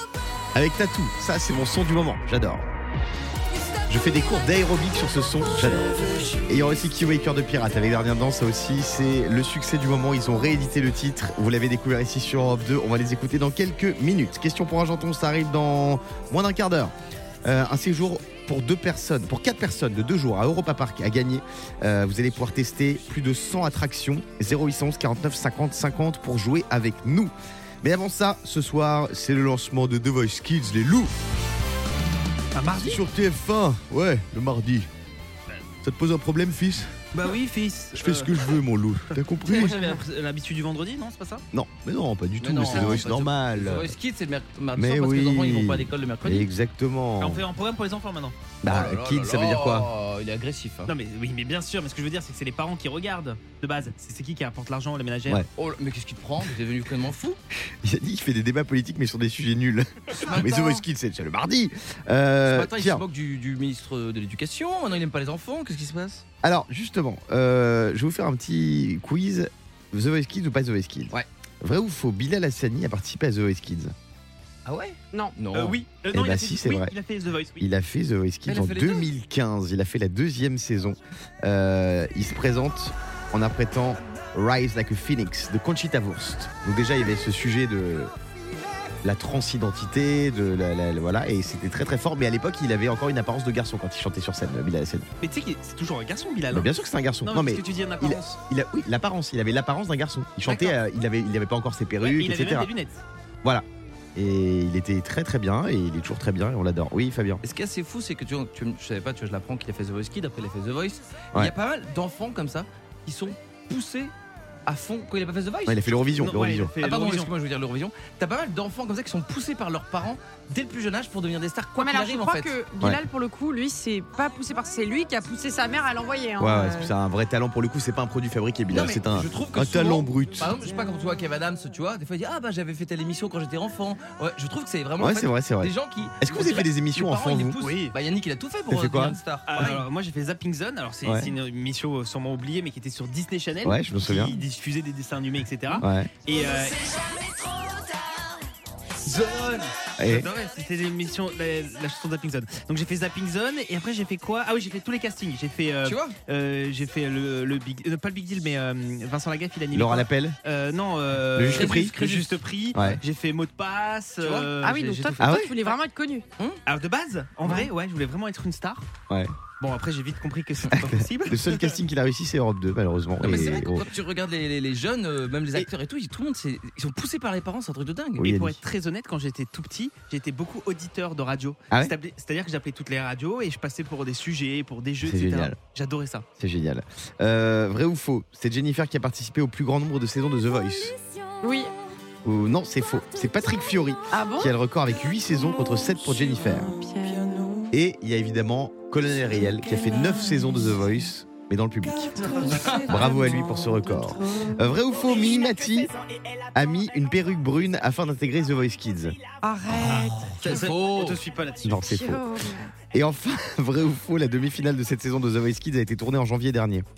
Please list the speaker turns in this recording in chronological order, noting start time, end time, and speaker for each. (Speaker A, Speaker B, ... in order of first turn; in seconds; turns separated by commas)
Speaker A: 0.5-2.6, Speaker A: 3.9-5.9, Speaker A: 6.5-16.9, Speaker A: 17.4-31.1, Speaker B: 32.5-33.0, Speaker A: 32.8-34.9, Speaker A: 35.8-36.9, Speaker B: 37.1-38.5, Speaker A: 37.9-39.8, Speaker B: 39.5-41.4, Speaker A: 41.5-44.0, Speaker C: 42.4-46.5, Speaker B: 42.7-43.0, Speaker A: 44.8-47.5, Speaker B: 47.2-48.4, Speaker A: 48.6-49.9, Speaker C: 48.7-50.9, Speaker B: 50.9-55.4, Speaker C: 55.6-57.4, Speaker A: 57.7-63.0, Speaker C: 60.2-60.8, Speaker C: 62.5-66.2, Speaker A: 66.4-73.9, Speaker C: 74.7-75.8, Speaker B: 75.5-77.7, Speaker A: 76.1-76.9, Speaker A: 77.6-88.1, Speaker C: 78.5-79.1, Speaker A: 89.0-95.1, Speaker B: 95.2-96.7, Speaker A: 96.5-102.7, Speaker B: 97.2-98.4, Speaker B: 100.5-100.8, Speaker B: 102.0-103.0, Speaker A: 103.4-107.4, Speaker C: 107.4-114.1, Speaker C: 114.7-115.8, Speaker A: 115.7-116.7, Speaker B: 116.2-117.3, Speaker C: 116.8-122.5, Speaker D: 121.8-126.9, Speaker A: 126.4-130.5, Speaker C: 128.7-139.9, Speaker A: 135.0-137.6, Speaker B: 137.6-137.9, Speaker A: 138.7-139.2, Speaker B: 139.5-146.8, Speaker A: 141.1-141.3, Speaker A: 143.6-144.4, Speaker A: 145.7-146.1, Speaker C: 149.1-149.7, Speaker A: 150.0-150.3, Speaker B: 150.0-165.2, Speaker C: 155.8-156.2, Speaker A: 159.7-160.4, Speaker A: 161.3-162.1, Speaker C: 161.6-162.3, Speaker A: 162.7-163.0, Speaker C: 164.2-164.5, Speaker D: 164.6-166.3, Speaker A: 165.2-165.6, Speaker B: 166.7-168.9, Speaker A: 169.1-169.3, Speaker B: 169.6-171.8, Speaker A: 170.7-173.9, Speaker C: 173.2-178.5, Speaker A: 178.2-178.6, Speaker B: 178.2-186.2, Speaker A: 185.0-185.6, Speaker A: 186.4-190.9, Speaker D: 191.4-191.7, Speaker A: 192.2-196.7, Speaker D: 194.1-194.5, Speaker D: 196.4-197.7, Speaker A: 197.7-205.9, Speaker A: 206.5-209.2, Speaker D: 209.4-210.8, Speaker C: 210.4-211.2, Speaker B: 210.4-211.8, Speaker A: 211.6-212.2, Speaker D: 211.8-212.8, Speaker A: 212.9-216.9